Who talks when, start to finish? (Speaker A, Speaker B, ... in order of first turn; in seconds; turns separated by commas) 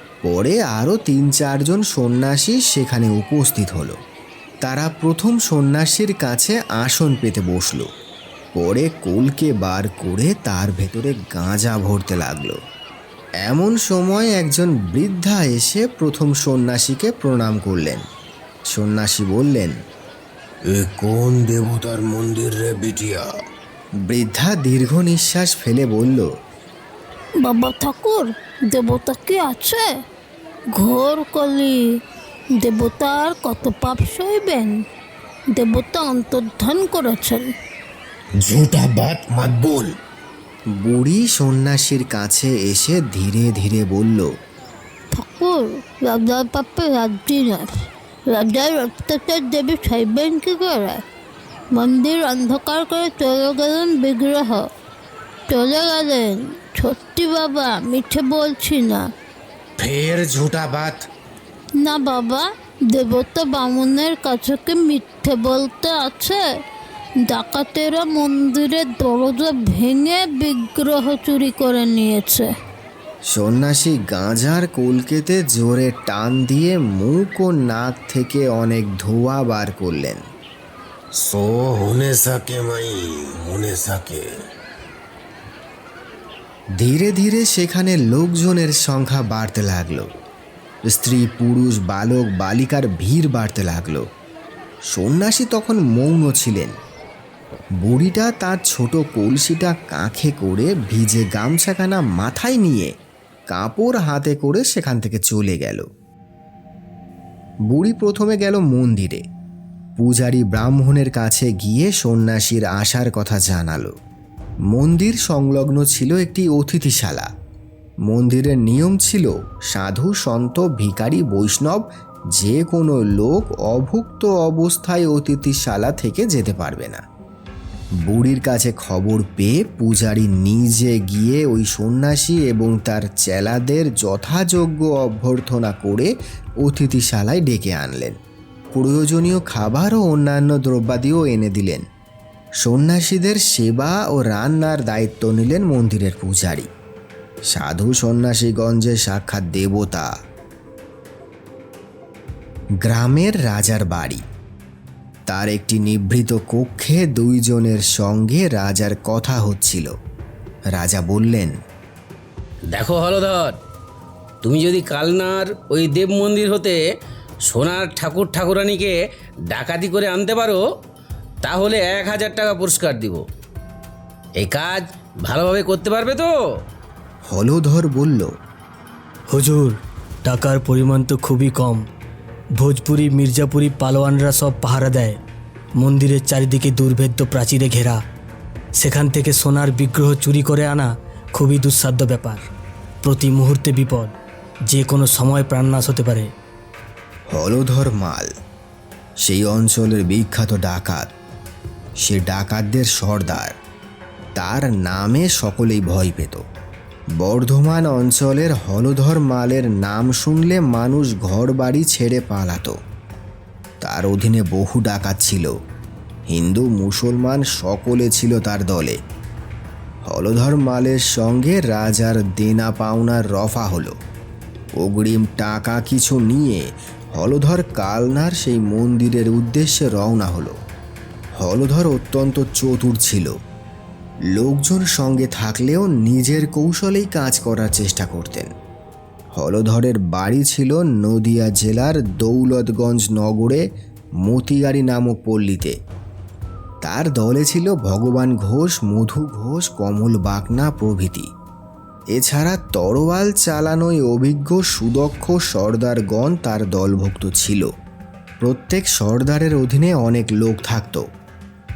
Speaker A: 0.2-4.0, Speaker A: 4.6-7.9, Speaker A: 8.6-12.6, Speaker A: 13.4-18.0, Speaker A: 18.7-19.8, Speaker B: 20.8-23.1, Speaker A: 24.1-26.2, Speaker C: 27.4-29.9, Speaker C: 30.8-31.8, Speaker C: 32.6-34.8, Speaker C: 35.5-37.5, Speaker B: 38.5-39.9, Speaker A: 40.8-44.3, Speaker C: 45.2-47.7, Speaker C: 48.3-51.0, Speaker C: 51.7-54.6, Speaker C: 55.5-59.0, Speaker C: 61.8-66.4, Speaker C: 67.2-72.5, Speaker A: 73.3-80.2, Speaker B: 81.2-84.2, Speaker A: 86.8-90.1, Speaker A: 90.8-94.0, Speaker A: 94.9-96.8, Speaker A: 97.8-102.9, Speaker A: 103.5-105.8, Speaker A: 107.7-109.2, Speaker A: 110.0-113.9, Speaker A: 114.7-117.3, Speaker A: 118.1-121.8, Speaker A: 122.3-127.0, Speaker A: 128.1-136.1, Speaker A: 136.6-138.2, Speaker A: 138.7-141.8, Speaker A: 142.6-146.7, Speaker A: 147.5-150.1, Speaker A: 152.8-154.2, Speaker A: 155.3-159.9, Speaker A: 160.7-161.5, Speaker D: 162.7-163.6, Speaker D: 164.4-166.8, Speaker D: 167.4-170.7, Speaker D: 171.4-173.2, Speaker D: 174.3-176.4, Speaker A: 177.3-178.3, Speaker E: 179.3-181.8, Speaker E: 182.6-185.2, Speaker E: 185.8-188.0, Speaker E: 188.8-192.4, Speaker E: 193.0-194.1, Speaker E: 194.7-196.3, Speaker A: 197.3-198.3, Speaker A: 199.2-201.1, Speaker A: 202.0-203.5, Speaker A: 204.3-206.4, Speaker A: 207.2-212.8, Speaker A: 213.8-215.5, Speaker A: 216.3-219.0, Speaker A: 220.0-223.9, Speaker A: 224.8-230.5, Speaker A: 231.4-233.3, Speaker A: 234.3-238.5, Speaker A: 239.3-243.6, Speaker A: 244.2-245.7, Speaker A: 246.8-251.3, Speaker A: 252.1-257.7, Speaker A: 258.4-261.0